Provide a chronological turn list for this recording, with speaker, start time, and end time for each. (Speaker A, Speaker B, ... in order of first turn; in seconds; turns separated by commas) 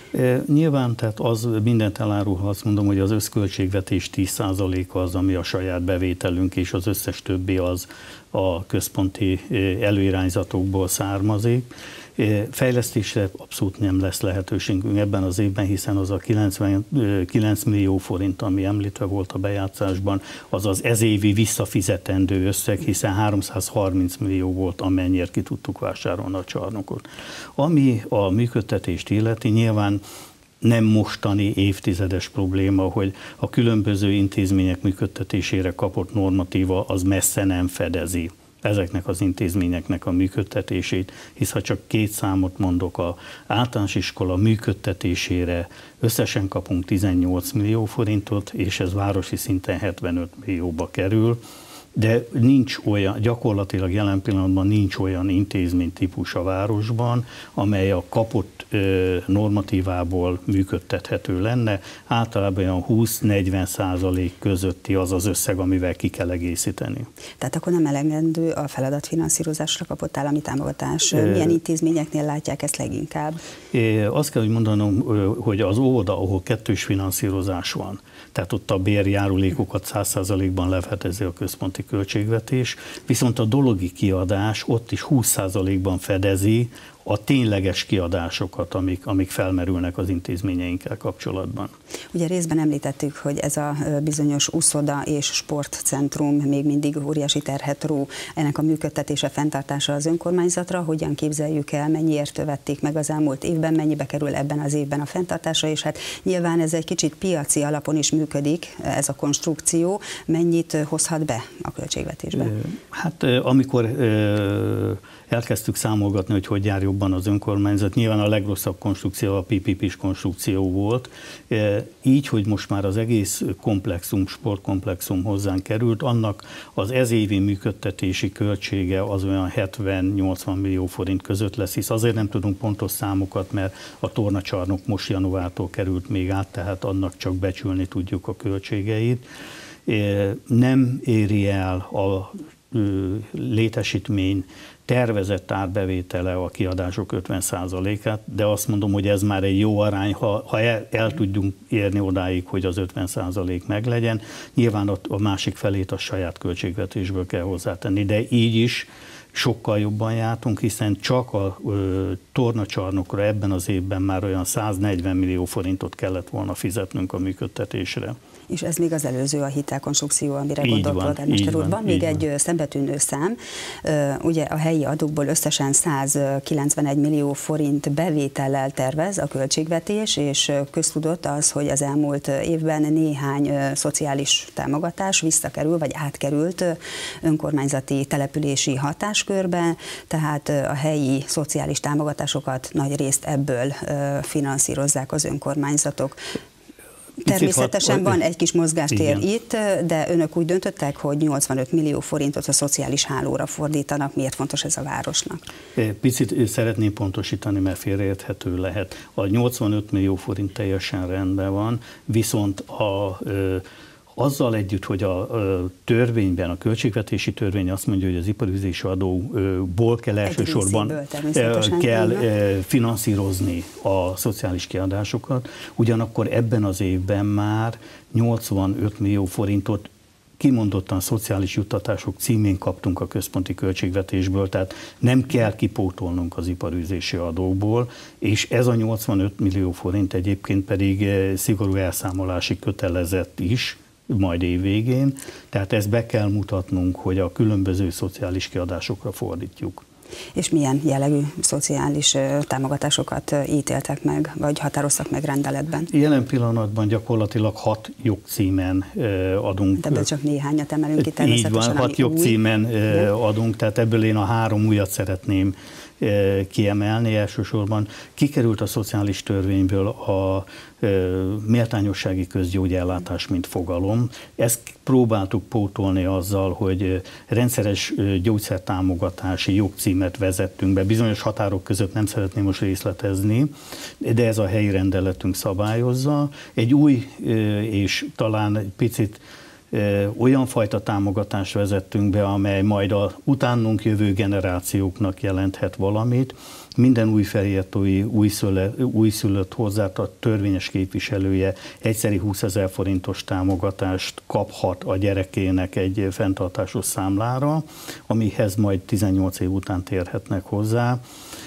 Speaker A: 0.1-11.7, Speaker A: 12.2-30.0, Speaker A: 30.6-51.4, Speaker A: 52.0-67.1, Speaker B: 67.4-73.4, Speaker A: 73.7-91.7, Speaker B: 92.1-112.5, Speaker A: 112.5-139.2, Speaker A: 139.8-168.2, Speaker B: 168.5-196.2, Speaker A: 170.6-172.2, Speaker B: 197.2-205.4, Speaker A: 197.2-198.2, Speaker A: 198.9-199.2, Speaker A: 205.8-213.6, Speaker A: 214.2-229.9, Speaker B: 220.2-222.3, Speaker A: 230.4-249.8, Speaker B: 250.3-255.9, Speaker A: 255.9-260.1, Speaker B: 259.8-262.4, Speaker A: 261.0-289.2, Speaker A: 289.7-311.0